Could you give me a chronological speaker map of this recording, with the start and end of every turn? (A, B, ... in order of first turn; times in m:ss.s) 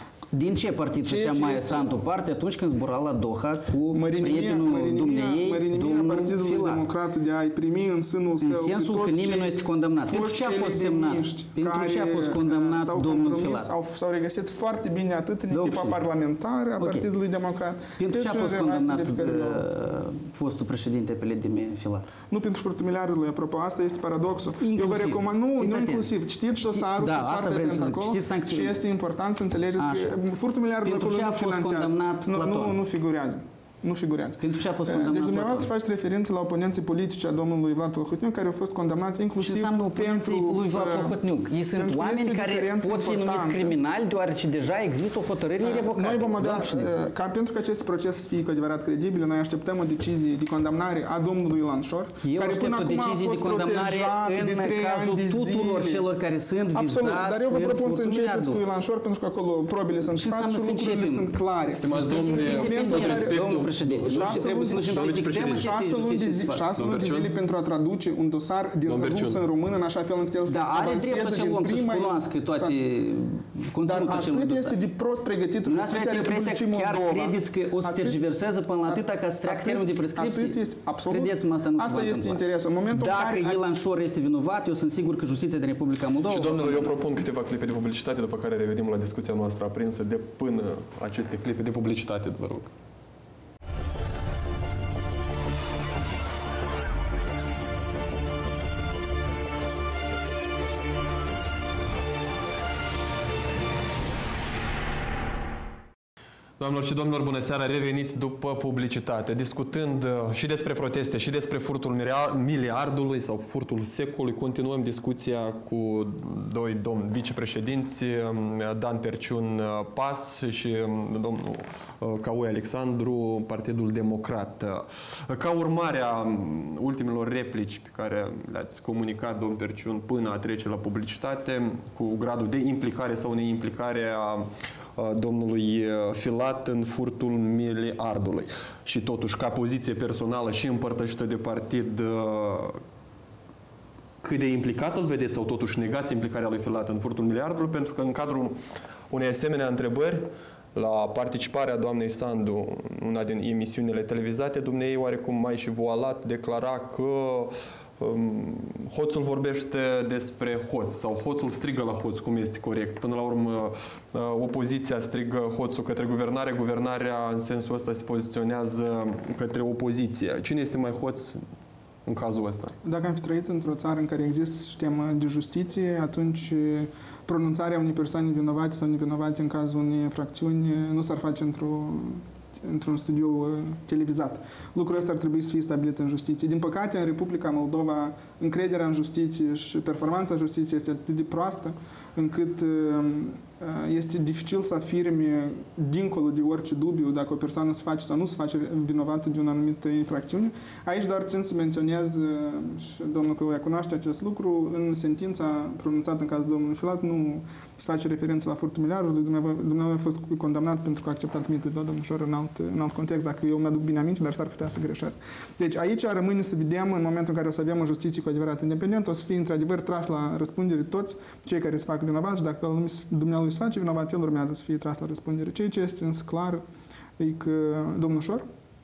0:00.3-0:06.9 A
0:01.0-0:01.9 B
0:03.9-0:19.6 B
0:08.4-0:13.7 A
0:15.5-0:16.0 A
0:16.8-0:17.1 A
0:18.0-0:22.1 A
0:22.3-0:41.2 B
0:24.6-0:28.8 A
0:29.8-0:30.2 A
0:30.8-0:32.8 A
0:34.4-0:35.7 A
0:39.4-0:46.9 A
0:41.7-0:43.8 B
0:45.6-0:56.1 B
0:52.2-0:58.6 A
0:56.7-1:12.8 B
1:00.1-1:01.3 A
1:01.7-1:05.7 C
1:01.9-1:06.7 A
1:06.8-1:07.3 C
1:08.9-1:09.4 C
1:10.4-1:14.8 A
1:13.8-1:18.2 B
1:15.6-1:26.9 A
1:18.8-1:23.6 B
1:26.3-1:32.7 C
1:46.6-2:22.8 C
2:24.2-2:28.6 C
2:29.1-2:51.4 C
2:52.0-2:52.7 C
2:52.8-3:46.6 B
3:47.2-3:48.4 B